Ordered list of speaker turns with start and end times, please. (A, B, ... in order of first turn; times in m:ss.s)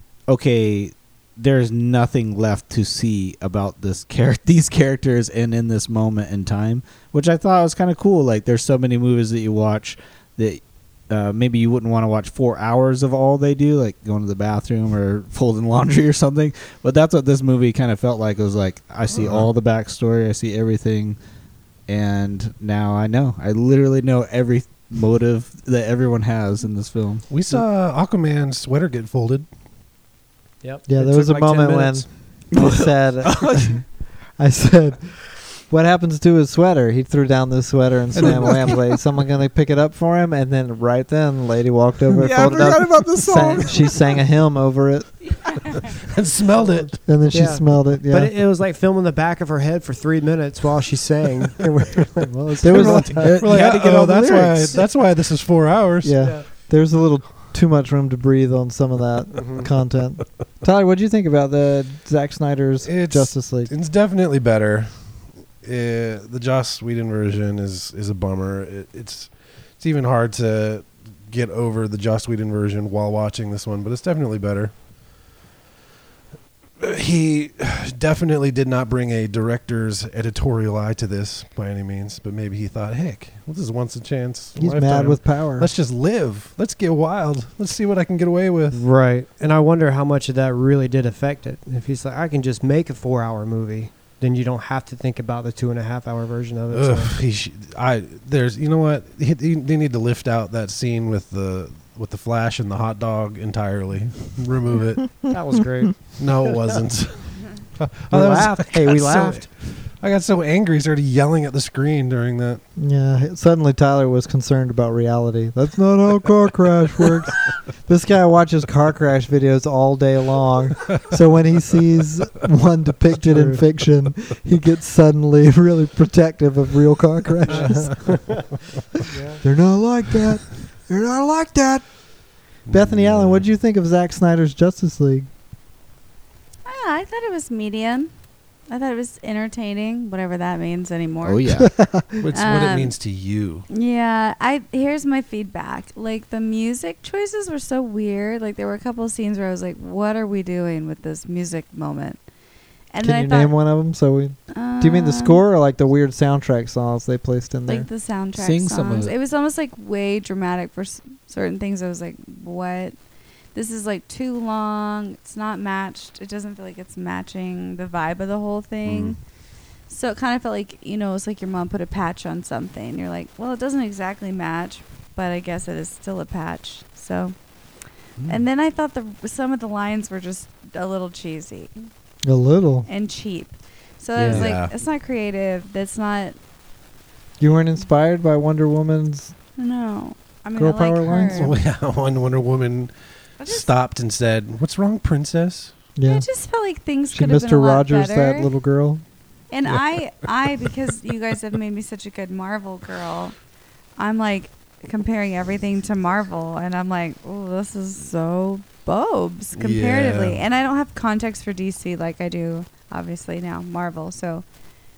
0:00.3-0:21.2 A
0:19.1-0:19.5 B
0:21.9-0:27.2 A
0:27.3-0:29.5 B
0:30.6-0:32.1 C
0:30.9-0:45.4 D
0:32.5-0:33.8 A
0:38.2-0:38.8 A
0:42.2-0:44.1 A
0:45.9-0:47.0 B
0:46.6-0:53.4 C
0:47.0-0:48.3 D
0:52.2-0:54.8 D
0:52.7-0:56.2 B
0:52.7-0:54.8 A
0:56.0-1:03.7 D
0:56.2-0:56.5 C
0:59.4-0:59.7 C
1:02.8-1:14.7 B
1:16.8-1:28.8 B
1:24.6-1:25.7 D
1:28.7-1:37.2 C
1:36.7-1:45.3 B
1:45.2-1:46.8 C
1:46.2-1:52.6 B
1:48.1-1:49.5 C
1:52.8-2:08.3 D
2:03.3-2:03.6 C
2:07.5-2:08.5 C
2:07.5-2:08.2 B
2:09.0-2:09.4 C
2:09.4-2:12.1 D
2:12.6-2:15.3 D
2:12.7-2:13.4 B
2:16.6-2:18.1 E
2:18.7-2:21.7 E
2:21.2-2:21.8 A
2:21.8-2:22.2 D
2:22.2-2:23.7 B
2:22.3-2:23.0 E
2:23.7-2:32.2 E
2:32.9-2:33.5 E
2:33.0-2:37.9 D
2:34.5-2:35.4 E
2:37.7-2:43.0 E
2:38.4-2:39.1 A
2:43.5-2:49.2 E
2:48.9-2:49.2 B
2:49.9-2:57.4 E
2:58.3-3:01.9 E
3:02.2-3:02.9 D
3:02.9-3:06.4 E
3:04.2-3:04.5 A
3:04.3-3:04.7 B
3:07.4-3:09.4 D
3:09.6-3:11.6 E
3:10.6-3:11.5 D
3:11.3-3:15.8 B
3:13.4-3:13.7 E
3:16.0-3:16.3 D
3:16.0-3:18.5 E
3:17.1-3:19.0 D
3:19.5-3:23.4 E
3:24.0-3:34.4 E
3:29.6-3:30.4 B